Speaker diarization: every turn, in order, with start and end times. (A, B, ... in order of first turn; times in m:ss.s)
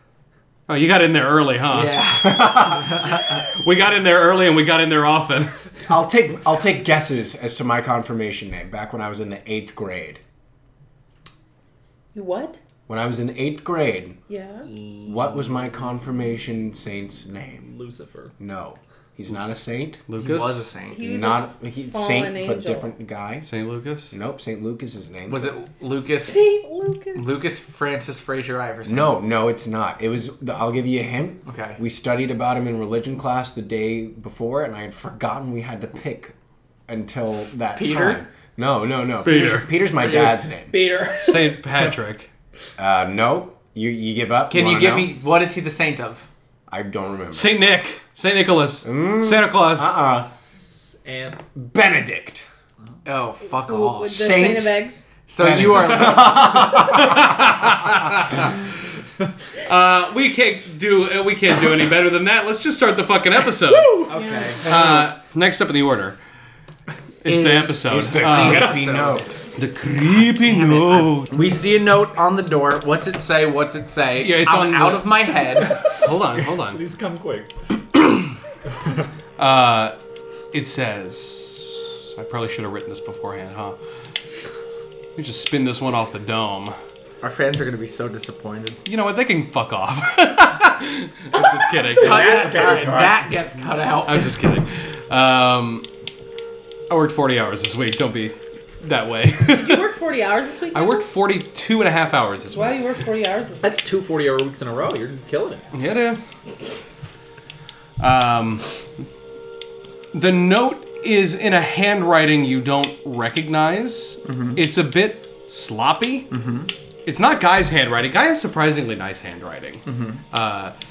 0:00.7-0:02.2 A
0:01.7-0:03.4 B
0:02.2-0:02.9 C
0:03.3-0:05.6 A
0:05.9-0:10.2 C
0:12.1-0:12.6 D
0:12.9-0:14.2 C
0:14.3-0:14.7 D
0:14.7-0:15.6 E
0:15.0-0:17.7 C
0:17.6-0:18.3 E
0:18.4-0:20.0 C
0:20.1-0:20.6 A
0:20.2-0:21.0 B
0:20.9-0:22.9 D
0:21.0-0:23.5 C
0:23.4-0:24.2 A
0:24.1-0:25.5 C
0:25.3-0:26.4 B
0:26.1-0:27.3 D
0:27.1-0:29.2 B
0:28.9-0:36.3 C
0:31.5-0:31.8 B
0:36.9-0:40.8 C
0:37.8-0:38.2 B
0:39.2-0:39.7 A
0:40.0-0:41.6 D
0:41.1-0:42.3 A
0:42.8-0:45.5 C
0:44.5-0:46.3 B
0:46.7-0:47.6 C
0:47.3-0:50.0 A
0:48.8-0:50.3 C
0:50.4-0:51.4 E
0:51.4-0:52.4 C
0:53.0-0:54.2 B
0:53.4-0:55.1 D
0:54.0-0:54.8 C
0:55.3-0:56.7 B
0:55.4-0:57.5 C
0:56.7-0:58.7 A
0:59.6-1:04.0 A
1:03.7-1:04.2 E
1:04.1-1:05.0 B
1:04.1-1:04.8 D
1:04.6-1:06.2 A
1:07.2-1:08.8 A
1:07.3-1:09.2 B
1:07.9-1:09.3 C
1:08.5-1:08.8 E
1:09.6-1:11.3 A
1:10.4-1:15.8 B
1:14.2-1:16.8 A
1:15.6-1:17.5 E
1:18.0-1:18.3 A
1:19.4-1:20.0 A
1:20.5-1:23.8 A
1:25.2-1:26.8 A
1:27.2-1:28.8 B
1:28.9-1:32.8 A
1:31.3-1:32.2 D
1:32.0-1:33.3 C
1:32.0-1:34.3 B
1:34.1-1:35.9 A
1:36.9-1:39.9 A
1:39.4-1:41.1 D
1:40.7-1:42.8 A
1:42.5-1:43.8 D
1:43.6-1:45.7 E
1:45.7-1:46.2 A
1:48.0-1:48.7 A
1:50.1-1:56.3 A
1:54.2-1:54.6 B
1:56.3-1:56.7 B
1:57.1-2:00.7 A
1:59.9-2:00.2 B